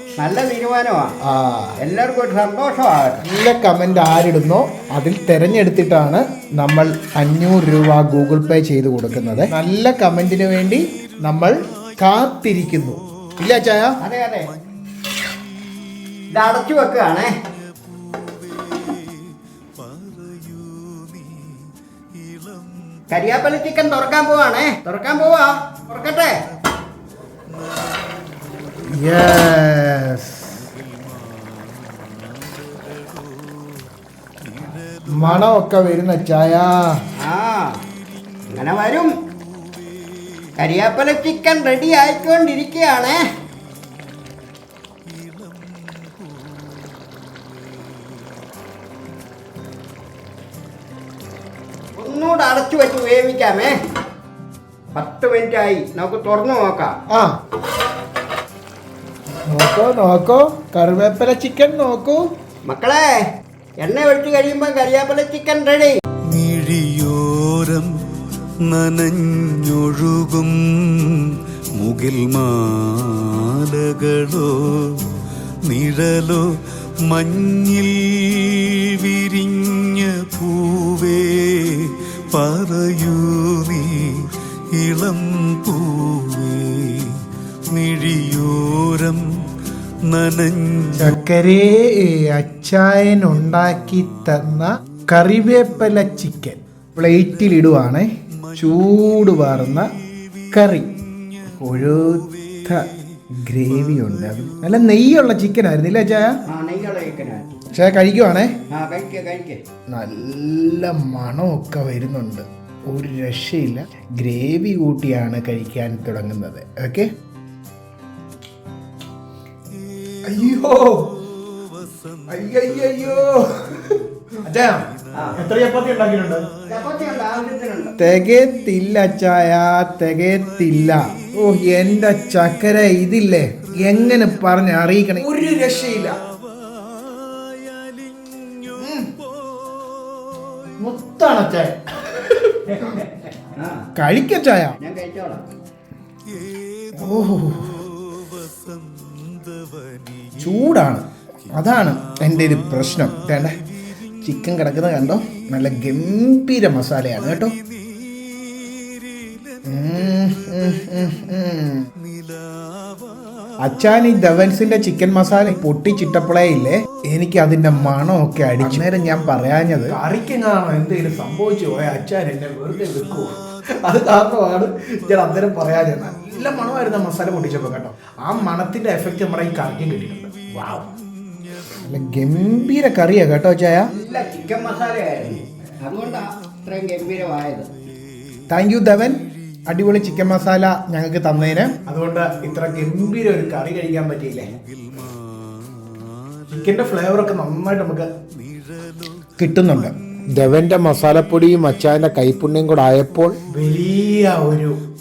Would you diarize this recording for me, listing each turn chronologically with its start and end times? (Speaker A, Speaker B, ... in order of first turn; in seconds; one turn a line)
Speaker A: 0.2-1.1
Speaker B: 1.2-1.8
Speaker A: 1.8-3.2
Speaker B: 3.2-14.0
Speaker A: 14.0-14.5
Speaker A: 16.3-17.3
Speaker C: 19.8-21.6
Speaker A: 23.1-26.4
Speaker B: 28.9-30.6
Speaker C: 31.3-33.5
Speaker C: 34.6-34.9
Speaker B: 35.1-36.9
Speaker A: 37.2-37.8
Speaker A: 38.5-39.1
Speaker A: 40.5-43.2
Speaker A: 52.0-53.7
Speaker A: 54.9-56.9
Speaker B: 59.5-62.2
Speaker A: 62.7-63.2
Speaker A: 63.8-66.0
Speaker C: 66.2-91.0
Speaker B: 91.0-99.9
Speaker B: 100.5-100.9
Speaker B: 101.6-106.4
Speaker A: 106.5-107.5
Speaker B: 107.7-108.5
Speaker A: 108.7-109.6
Speaker B: 109.9-117.1
Speaker B: 120.2-121.1
Speaker C: 121.9-122.1
Speaker B: 122.3-126.4
Speaker A: 125.1-125.4
Speaker A: 126.7-127.9
Speaker B: 128.0-136.2
Speaker C: 136.8-138.6
Speaker B: 138.8-139.1
Speaker B: 140.8-143.0
Speaker A: 142.7-143.9
Speaker B: 143.9-144.8
Speaker A: 144.8-145.4
Speaker B: 146.9-147.8
Speaker C: 148.5-150.2
Speaker B: 150.4-153.6
Speaker B: 154.2-157.5
Speaker C: 158.7-159.3
Speaker B: 159.6-161.9
Speaker C: 162.4-162.9
Speaker B: 163.6-180.9
Speaker B: 181.8-183.9
Speaker A: 183.9-187.7
Speaker B: 188.5-194.5
Speaker C: 194.9-195.9
Speaker B: 196.5-198.1
Speaker B: 199.4-204.8